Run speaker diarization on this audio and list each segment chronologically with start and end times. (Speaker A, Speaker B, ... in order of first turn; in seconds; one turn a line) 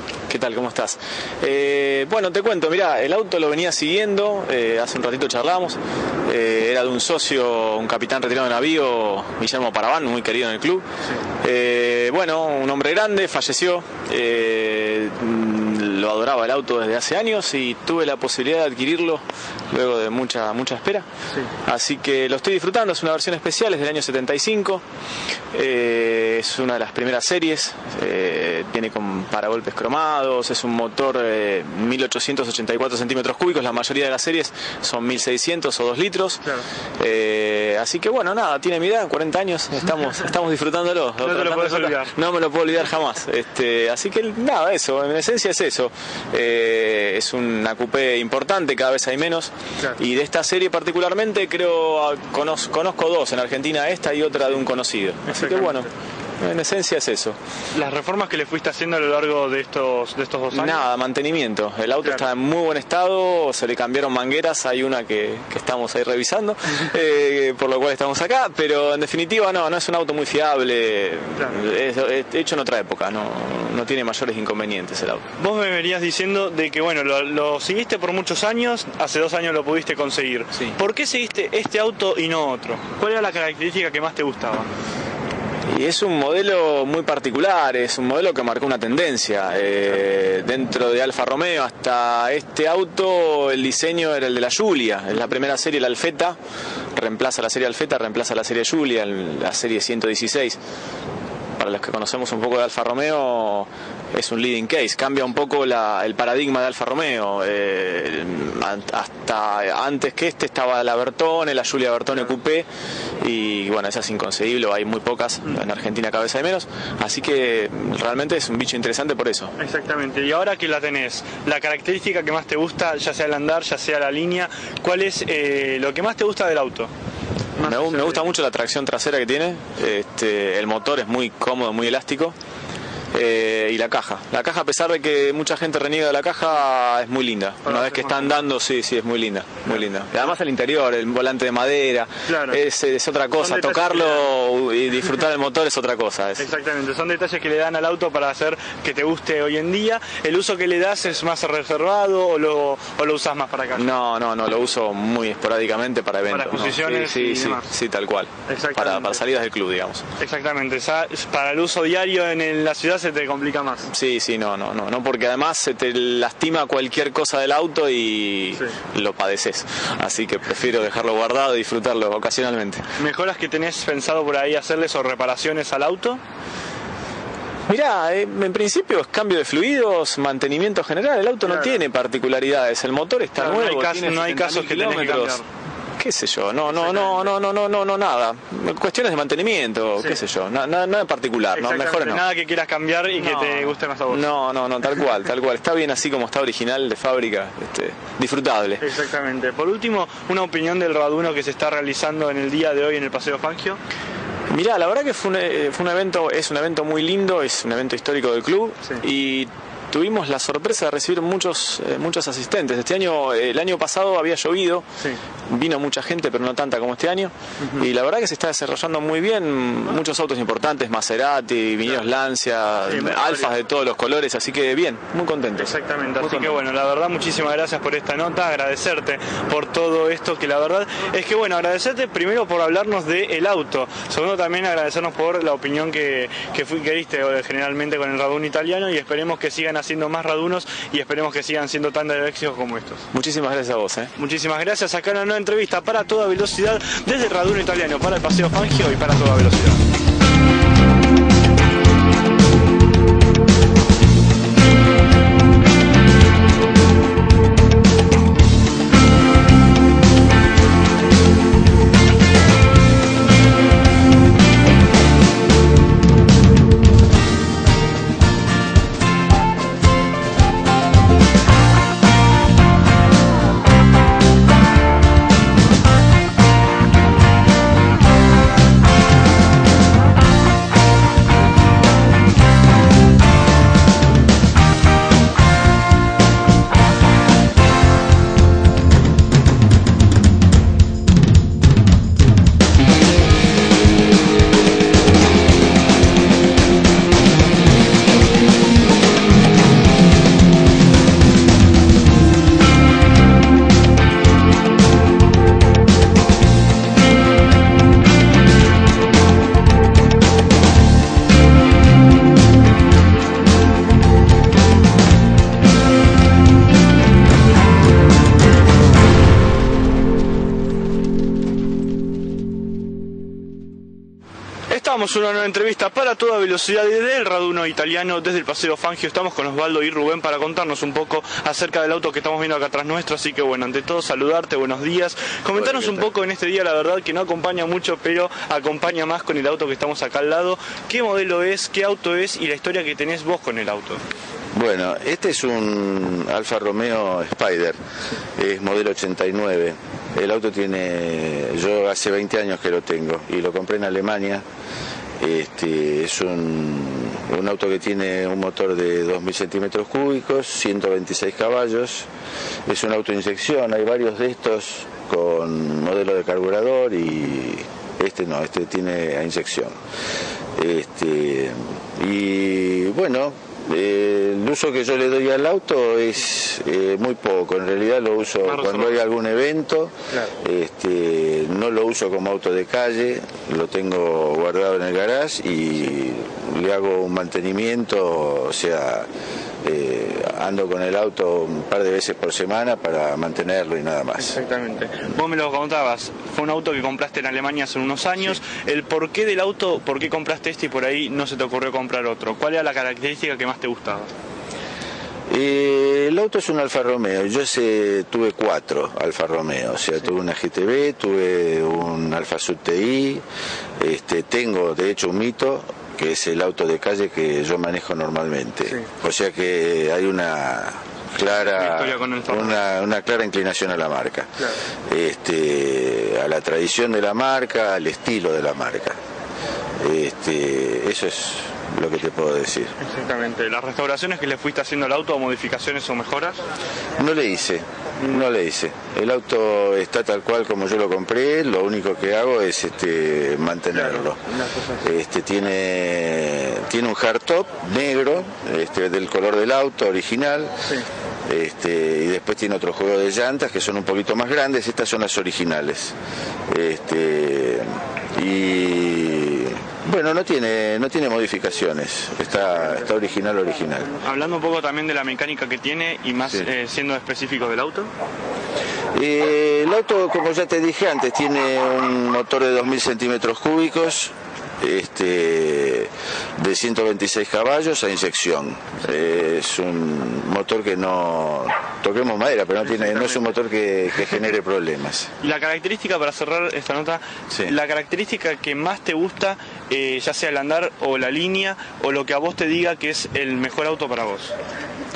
Speaker A: 0.3-10.8
Speaker A: 11.4-21.1
Speaker A: 21.6-24.8
Speaker A: 25.5-36.4
Speaker A: 37.0-55.9
Speaker B: 41.2-42.1
Speaker B: 55.3-55.9
Speaker A: 56.4-57.4
Speaker B: 57.7-60.8
Speaker A: 60.5-75.3
Speaker B: 75.4-84.7
Speaker A: 85.7-96.4
Speaker A: 96.9-100.6
Speaker A: 101.6-112.7
Speaker A: 113.2-119.5
Speaker B: 119.6-126.9
Speaker B: 127.5-128.2
Speaker A: 127.6-132.3
Speaker A: 133.1-146.4
Speaker B: 137.6-138.4
Speaker B: 142.3-142.6
Speaker B: 143.4-144.4
Speaker B: 146.4-153.9
Speaker A: 153.7-160.0
Speaker B: 156.3-157.7
Speaker B: 158.5-159.2
Speaker B: 160.2-163.9
Speaker A: 163.9-172.8
Speaker B: 173.0-176.2
Speaker A: 177.7-185.4
Speaker B: 181.4-181.8
Speaker B: 183.4-185.4
Speaker A: 186.0-192.2
Speaker B: 186.7-187.3
Speaker B: 191.5-194.2
Speaker A: 193.2-198.8
Speaker B: 198.8-203.8
Speaker A: 204.5-214.8
Speaker A: 215.5-226.6
Speaker B: 222.9-223.5
Speaker B: 225.6-243.1
Speaker A: 243.1-244.1
Speaker B: 244.2-249.8
Speaker B: 324.7-344.0
Speaker C: 335.5-336.1
Speaker C: 344.5-347.8
Speaker C: 348.4-354.4
Speaker C: 355.2-362.1
Speaker C: 362.7-369.8
Speaker C: 370.6-389.1
Speaker B: 378.4-379.0
Speaker C: 389.6-394.4
Speaker B: 394.2-404.1
Speaker C: 405.3-413.2
Speaker C: 413.8-424.3
Speaker B: 421.4-422.6
Speaker B: 424.4-424.6
Speaker C: 424.9-429.0
Speaker C: 429.8-432.7
Speaker B: 432.8-436.4
Speaker C: 437.0-444.2
Speaker B: 443.7-444.8
Speaker C: 444.8-450.5
Speaker C: 451.3-455.9
Speaker C: 456.5-463.9
Speaker B: 464.0-467.9
Speaker C: 468.9-485.1
Speaker B: 482.7-483.2
Speaker B: 485.2-494.3